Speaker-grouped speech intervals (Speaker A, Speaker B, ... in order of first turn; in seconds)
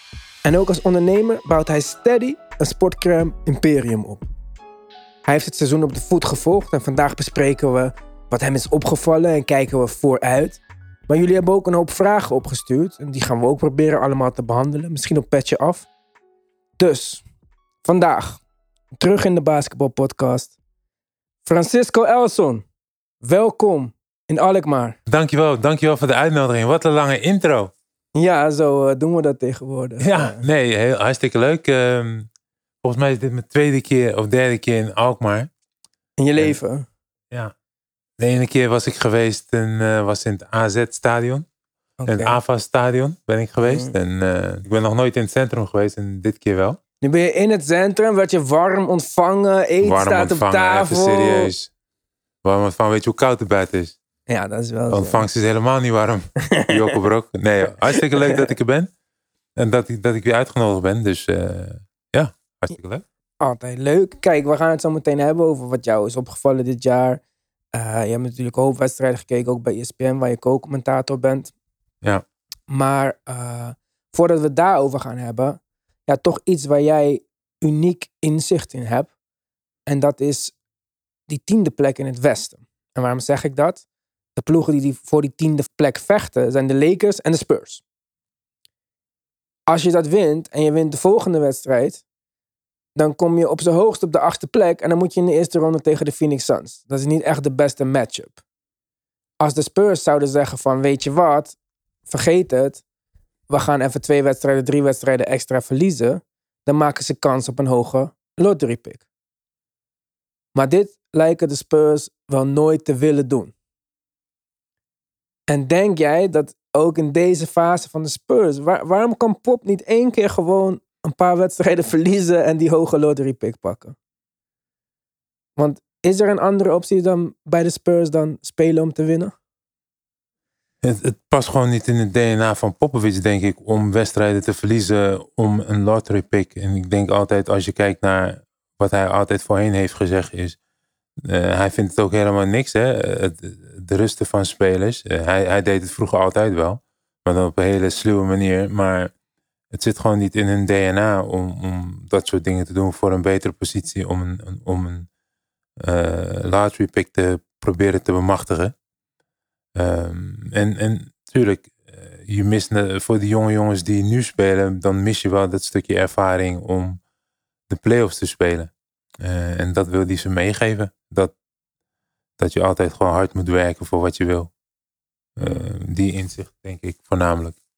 Speaker A: 0.4-4.3, 5.2-15.9, 16.8-17.2, 17.8-18.4, 18.9-20.5, 21.4-22.6, 23.2-25.0, 28.1-30.4, 36.2-36.9, 42.0-42.4, 43.7-43.9, 47.0-51.5, 54.3-55.2, 58.1-58.5, 63.4-67.2, 67.7-71.5, 72.7-79.1, 79.9-80.5, 81.3-83.8, 84.3-87.8, 89.7-92.0, 93.0-98.4, 99.4-101.5, 102.1-102.8, 103.5-109.0, 110.5-113.5, 115.5-124.0, 125.6-129.3
Speaker B: 25.1-27.7, 30.0-32.3, 32.8-35.5, 38.2-41.5, 42.0-46.8, 49.8-51.7, 52.4-53.9, 54.9-58.9, 59.5-63.0, 130.8-140.6, 141.2-149.1, 149.7-155.1, 155.8-158.7, 159.8-167.0, 167.7-171.3, 172.4-174.5, 175.4-177.6